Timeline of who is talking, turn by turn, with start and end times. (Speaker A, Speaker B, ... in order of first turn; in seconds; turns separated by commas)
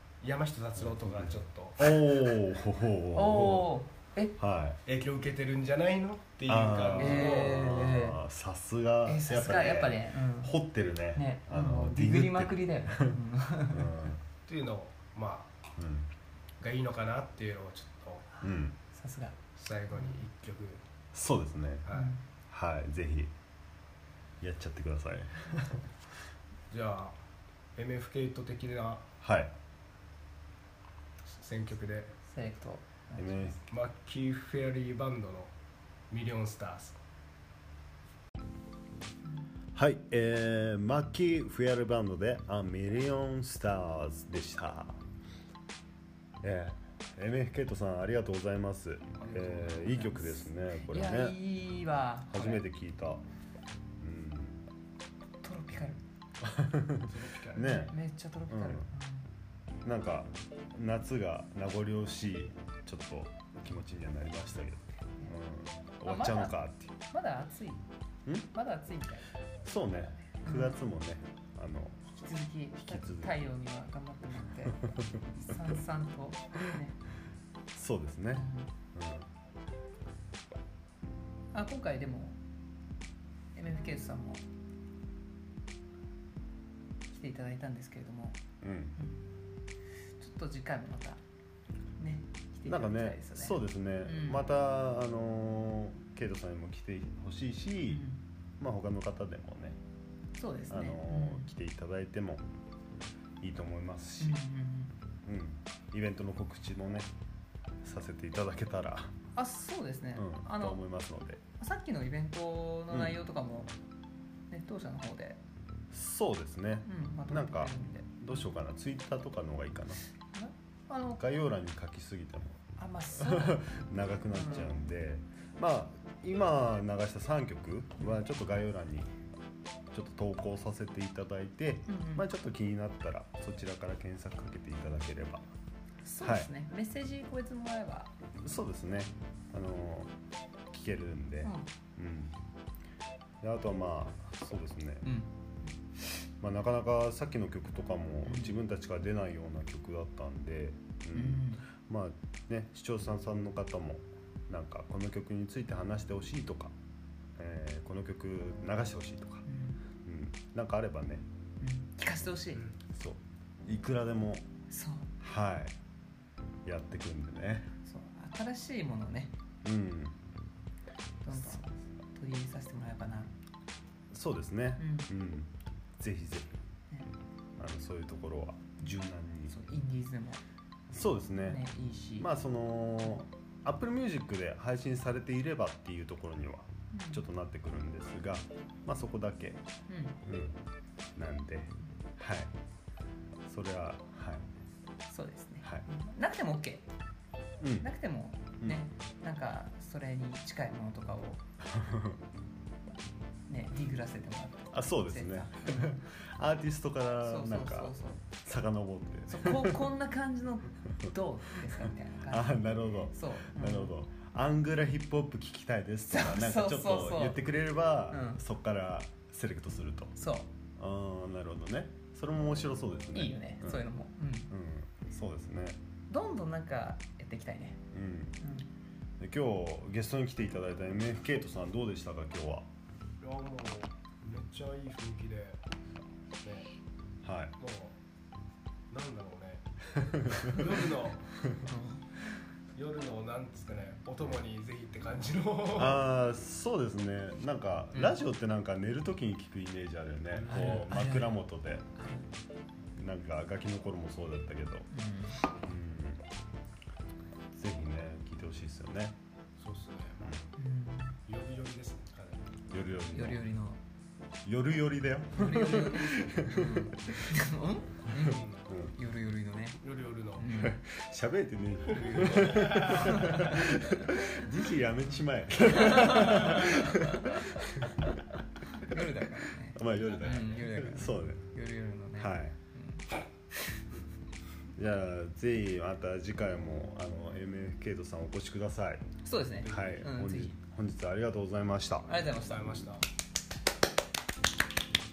Speaker A: 0.2-2.0, Speaker B: 0.8-3.7, Speaker C: 3.1-4.4, Speaker B: 4.4-4.8, Speaker A: 4.8-7.8, Speaker B: 6.5-13.2, Speaker C: 7.0-8.2, Speaker C: 9.1-10.6, Speaker C: 11.1-14.0, Speaker B: 13.7-14.2, Speaker A: 14.4-15.5, Speaker B: 15.8-16.1, Speaker A: 16.6-18.3, Speaker B: 18.4-18.8, Speaker C: 18.4-19.4, Speaker A: 19.6-20.8, Speaker C: 19.9-20.2, Speaker B: 21.1-21.9, Speaker A: 21.8-22.1, Speaker C: 21.9-22.2, Speaker B: 22.5-23.3, Speaker B: 24.4-25.9, Speaker A: 26.7-27.2, Speaker A: 27.7-29.1, Speaker B: 29.2-29.5, Speaker A: 31.3-32.2, Speaker C: 32.3-33.6, Speaker B: 33.2-33.6, Speaker A: 33.7-35.5, Speaker A: 36.1-37.0, Speaker B: 39.7-45.0, Speaker B: 46.4-51.4, Speaker A: 49.2-50.0, Speaker C: 49.9-52.6, Speaker B: 52.3-53.2, Speaker B: 54.0-54.6, Speaker C: 55.4-56.0, Speaker B: 56.4-58.0, Speaker A: 57.1-57.9, Speaker C: 57.8-59.3, Speaker B: 58.5-58.9, Speaker B: 59.8-66.9, Speaker C: 66.0-67.8, Speaker C: 68.5-69.4, Speaker B: 69.6-72.0, Speaker C: 70.4-70.8, Speaker C: 72.1-77.0, Speaker B: 72.8-73.5, Speaker B: 74.8-75.3, Speaker B: 77.7-79.3, Speaker C: 78.3-78.7, Speaker C: 81.5-82.4, Speaker C: 83.5-84.5, Speaker C: 87.1-88.4, Speaker B: 88.6-89.0, Speaker C: 89.0-89.2, Speaker C: 90.2-91.2, Speaker C: 92.0-94.5, Speaker B: 92.7-98.1, Speaker C: 97.9-98.2, Speaker B: 98.6-99.8, Speaker C: 100.4-101.5, Speaker B: 100.7-102.4, Speaker B: 103.4-104.4, Speaker C: 104.2-105.0, Speaker B: 105.2-107.1, Speaker B: 107.8-109.2, Speaker C: 109.3-110.8, Speaker B: 110.1-111.4, Speaker C: 111.6-113.7, Speaker B: 112.9-113.2, Speaker C: 114.5-115.4, Speaker B: 115.9-120.0, Speaker C: 116.9-118.1, Speaker C: 120.3-121.2, Speaker B: 121.2-129.1, Speaker C: 122.8-123.6, Speaker C: 124.3-124.8, Speaker B: 129.9-135.5, Speaker C: 131.9-132.3, Speaker C: 136.0-138.1, Speaker B: 136.2-136.5, Speaker B: 138.4-140.1, Speaker B: 140.7-142.3, Speaker B: 143.4-145.2, Speaker C: 145.1-145.3, Speaker B: 146.4-156.7, Speaker C: 148.3-148.6, Speaker C: 151.1-151.6, Speaker B: 157.4-159.5, Speaker C: 159.4-159.8, Speaker B: 160.0-161.2, Speaker C: 161.6-162.7, Speaker B: 162.8-164.4, Speaker C: 164.7-165.1, Speaker B: 165.2-165.7, Speaker B: 166.6-167.7, Speaker C: 167.8-169.3, Speaker B: 169.6-170.2, Speaker C: 171.2-173.3, Speaker B: 174.1-176.6, Speaker C: 174.8-175.1, Speaker B: 177.6-179.6, Speaker C: 179.5-180.4, Speaker B: 180.9-181.7, Speaker C: 181.4-182.3, Speaker B: 182.2-189.6, Speaker C: 186.9-187.2, Speaker C: 189.9-190.2, Speaker B: 190.2-190.6, Speaker B: 191.2-192.5, Speaker B: 193.5-194.5, Speaker C: 195.1-196.9, Speaker B: 197.6-197.9, Speaker C: 197.8-201.4, Speaker B: 201.6-202.2, Speaker C: 203.5-206.0, Speaker B: 204.7-209.9, Speaker C: 207.2-208.2, Speaker C: 209.3-213.9, Speaker B: 211.0-211.6, Speaker B: 212.3-220.2, Speaker C: 216.1-217.4, Speaker C: 218.1-218.4, Speaker C: 220.2-220.5, Speaker B: 220.8-223.8, Speaker C: 223.1-224.5, Speaker B: 224.5-225.8, Speaker C: 226.1-227.9, Speaker B: 227.9-228.4, Speaker C: 228.4-228.7, Speaker B: 229.2-232.7, Speaker A: 233.2-236.7, Speaker B: 237.2-237.5, Speaker A: 237.6-238.0, Speaker A: 238.9-239.7, Speaker B: 240.1-240.6, Speaker A: 240.3-241.3, Speaker C: 241.7-242.1, Speaker A: 242.7-246.0, Speaker B: 245.7-251.8, Speaker A: 250.3-250.9, Speaker C: 250.5-252.3, Speaker B: 252.9-254.9, Speaker C: 254.9-255.4, Speaker B: 255.6-256.2, Speaker B: 257.5-259.2, Speaker A: 259.6-260.5, Speaker C: 260.6-261.2, Speaker A: 261.3-262.7, Speaker B: 262.7-263.5, Speaker C: 263.1-263.8, Speaker B: 264.4-267.3, Speaker C: 265.3-269.8, Speaker A: 268.2-268.6, Speaker B: 268.7-268.9, Speaker A: 269.8-270.5, Speaker C: 270.4-270.8, Speaker B: 270.6-278.9, Speaker A: 271.9-273.6, Speaker C: 272.9-273.7, Speaker C: 275.7-277.4, Speaker C: 278.8-283.8, Speaker B: 279.7-281.5, Speaker A: 280.0-280.7, Speaker B: 282.2-282.6, Speaker B: 284.8-289.1, Speaker C: 289.2-290.6, Speaker A: 289.6-290.1, Speaker B: 289.6-292.2, Speaker C: 292.1-292.8, Speaker A: 292.2-293.0